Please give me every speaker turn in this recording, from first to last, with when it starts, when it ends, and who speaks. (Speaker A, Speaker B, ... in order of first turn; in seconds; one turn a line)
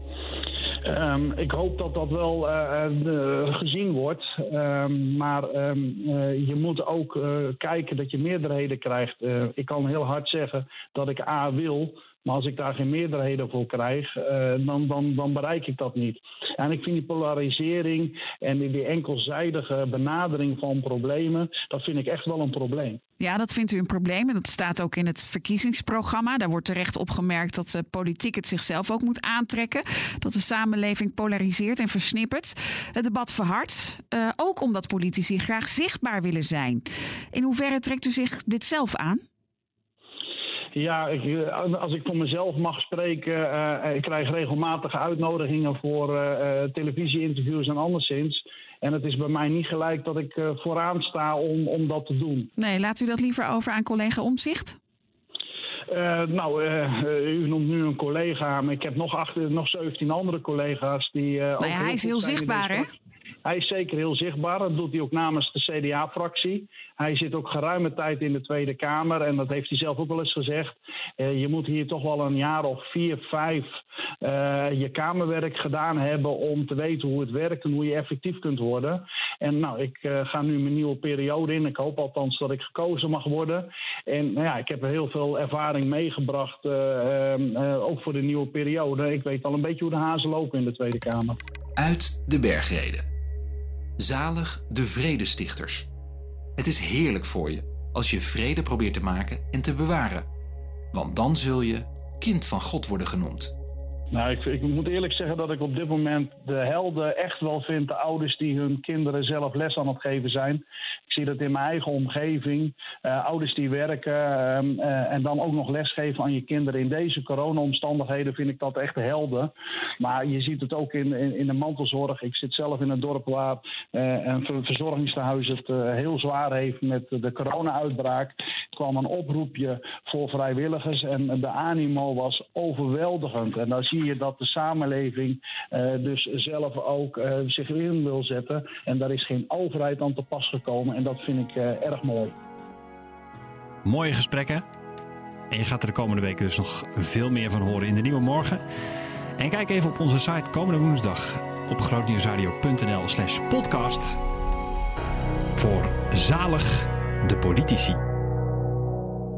Speaker A: 0.8-23.0
Speaker B: 23.2-39.2
Speaker A: 40.7-52.5
Speaker B: 52.6-54.8
Speaker A: 55.9-62.9
Speaker B: 61.6-62.9
Speaker A: 63.4-91.4
Speaker C: 91.8-93.1
Speaker C: 94.0-95.9
Speaker C: 96.6-100.3
Speaker C: 100.9-103.5
Speaker A: 104.1-142.3
Speaker D: 143.8-144.6
Speaker D: 145.5-148.6
Speaker D: 149.4-154.2
Speaker D: 155.6-158.0